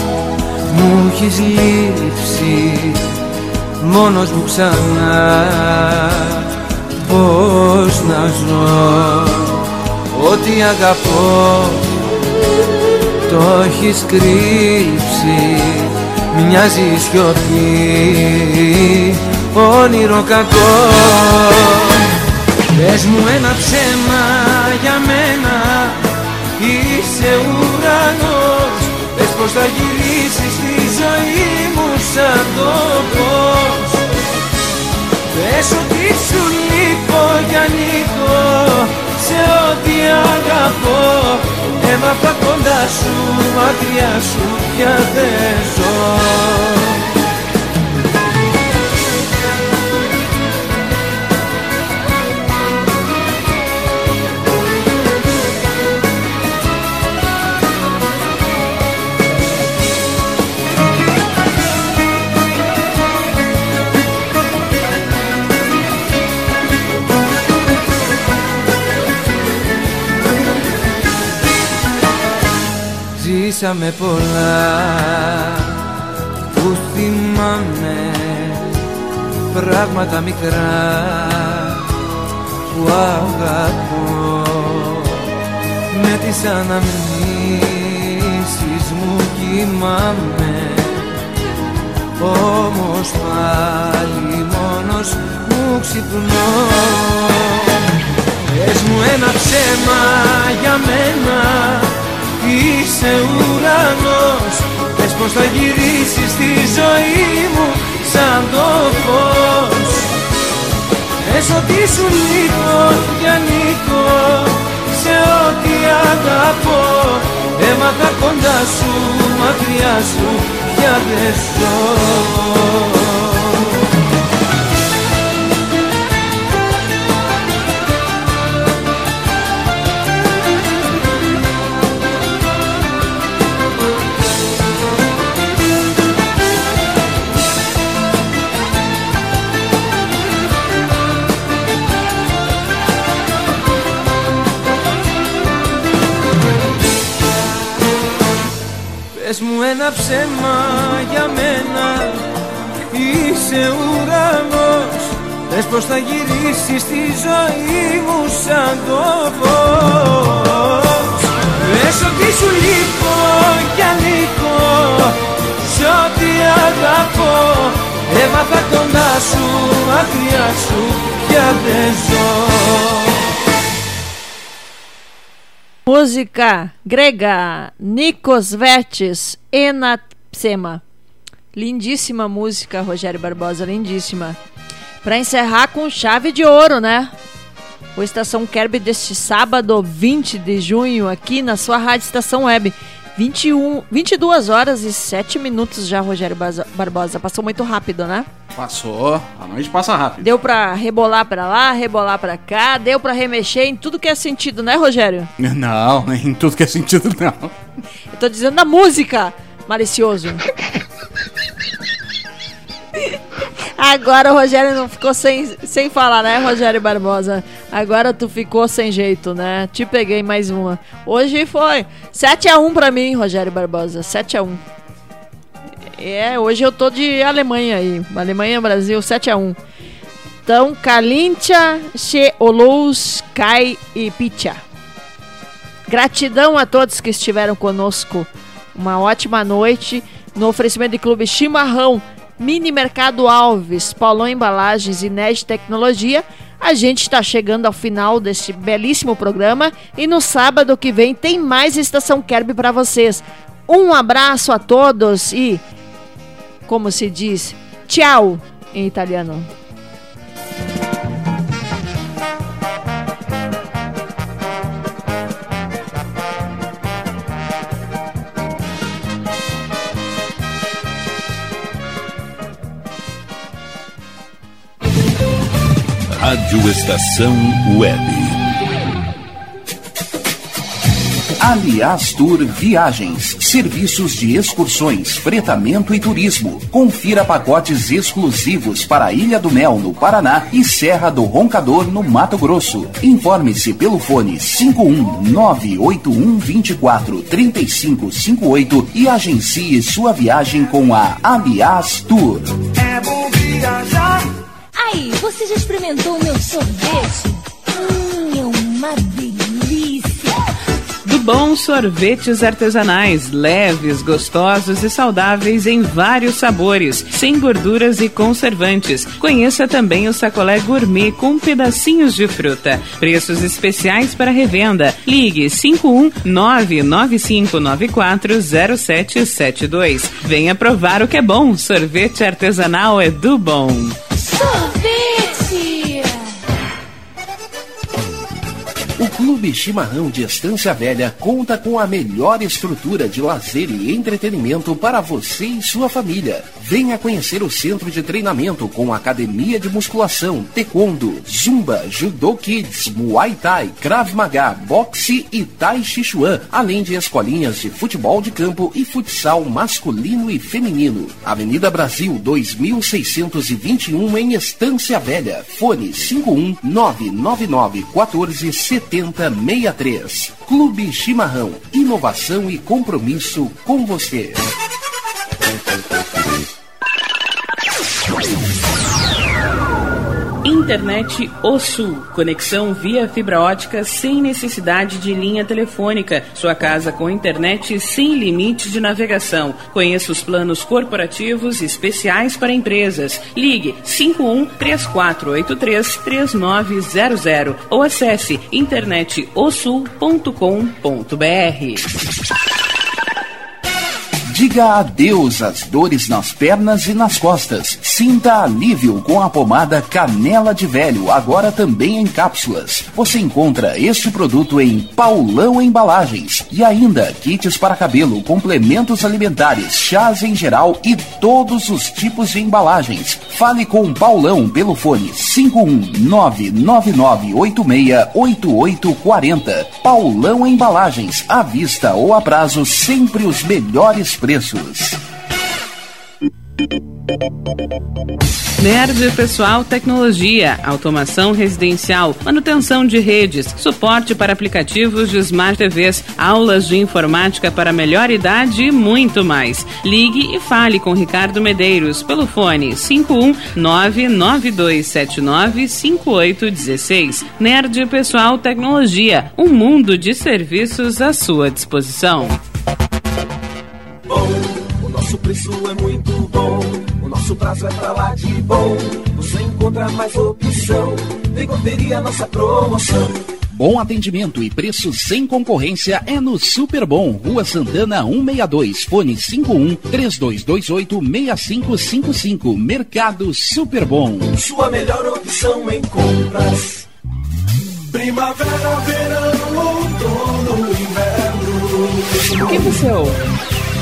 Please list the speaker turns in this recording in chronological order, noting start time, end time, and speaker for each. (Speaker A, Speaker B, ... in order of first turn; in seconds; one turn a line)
Speaker A: 0.7-3.0
Speaker A: 3.8-6.4
Speaker A: 7.0-9.6
Speaker A: 10.1-11.8
Speaker A: 13.3-21.9
Speaker A: 22.7-26.0
Speaker A: 26.6-34.0
Speaker A: 35.3-46.9
Speaker A: 73.2-75.6
Speaker A: 76.5-78.6
Speaker A: 79.5-81.8
Speaker A: 82.7-85.1
Speaker A: 85.9-91.1
Speaker A: 92.2-97.7
Speaker A: 98.5-110.1
Speaker A: 111.2-123.5
Speaker A: 149.1-152.2
Speaker A: 152.9-173.1
Speaker B: 175.8-180.8
Speaker B: 181.5-184.3
Speaker B: 185.0-187.1
Speaker B: 187.9-198.2
Speaker C: 198.5-200.3
Speaker B: 200.2-205.3
Speaker C: 205.4-207.5
Speaker B: 208.1-210.4
Speaker B: 213.8-224.6
Speaker B: 226.0-229.6
Speaker B: 230.4-234.6
Speaker B: 235.9-255.6
Speaker B: 256.7-259.5
Speaker D: 276.1-278.4
Speaker E: 281.4-302.6
Speaker F: 302.8-304.2
Speaker F: 304.8-310.4
Speaker G: 311.0-334.0
Speaker F: 334.2-336.1
Speaker E: 339.0-374.4
Speaker G: 380.4-401.9
Speaker E: 404.3-435.0
Speaker G: 438.6-462.4
Speaker H: 464.1-473.1
Speaker E: 473.5-484.3
Speaker H: 484.3-486.8
Speaker H: 487.9-493.1
Speaker G: 492.5-493.1